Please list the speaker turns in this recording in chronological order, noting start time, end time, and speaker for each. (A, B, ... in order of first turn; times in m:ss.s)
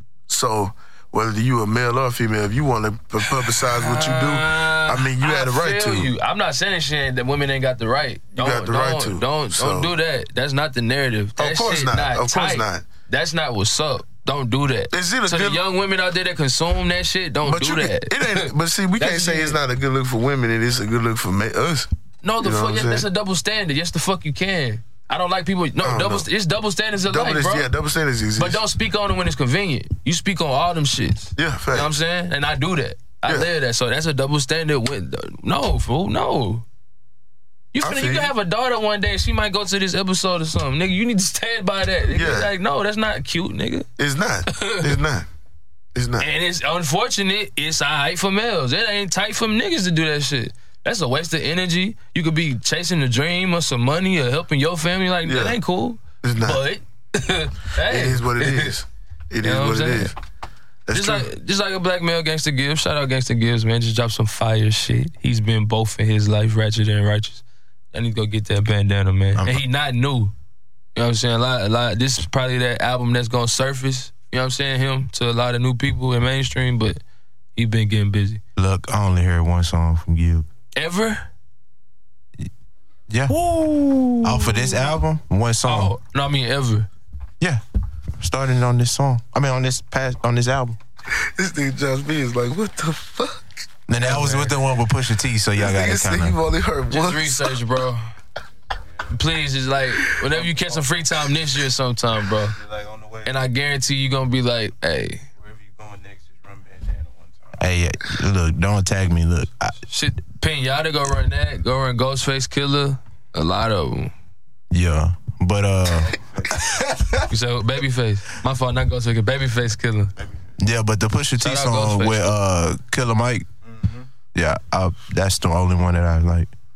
0:00.3-0:06.1 A
0:03.5-0:19.6 B
0:08.4-0:10.0 A
0:11.4-0:12.9 A
0:14.9-0:15.6 A
0:17.4-0:21.9 A
0:22.2-0:27.7 B
0:22.4-0:23.1 A
0:25.8-0:26.3 A
0:27.1-0:28.6 A
0:28.4-0:36.6 B
0:31.4-0:31.9 A
0:37.7-0:43.9 B
0:37.8-0:38.3 A
0:42.1-0:42.5 A
0:44.0-0:45.3 A
0:44.5-0:44.9 B
0:46.0-0:46.3 A
0:46.2-0:58.8 B
0:55.2-0:55.6 A
0:56.2-0:56.6 A
0:57.8-1:00.2 A
0:59.4-1:00.1 B
1:00.9-1:01.3 A
1:00.9-1:10.3 B
1:09.4-1:09.6 C
1:11.0-1:17.0 B
1:17.6-1:18.4 B
1:18.6-1:20.5 C
1:20.8-1:21.3 B
1:23.1-1:23.4 C
1:23.3-1:24.9 B
1:24.2-1:25.9 C
1:25.6-1:26.9 B
1:28.2-1:30.8 C
1:31.1-1:33.4 A
1:33.9-1:36.4 C
1:34.0-1:34.6 B
1:35.6-1:37.6 A
1:36.9-1:38.1 B
1:38.7-1:39.2 D
1:39.1-1:42.6 B
1:40.2-1:41.1 D
1:42.5-1:43.4 D
1:43.2-1:45.2 B
1:45.4-1:47.8 D
1:47.6-1:49.8 C
1:49.9-1:54.1 B
1:54.7-1:57.2 C
1:55.9-1:56.9 D
1:57.3-2:00.1 B
2:00.2-2:00.5 D
2:00.6-2:03.5 C
2:01.4-2:02.3 B
2:03.6-2:04.1 D
2:04.4-2:06.5 C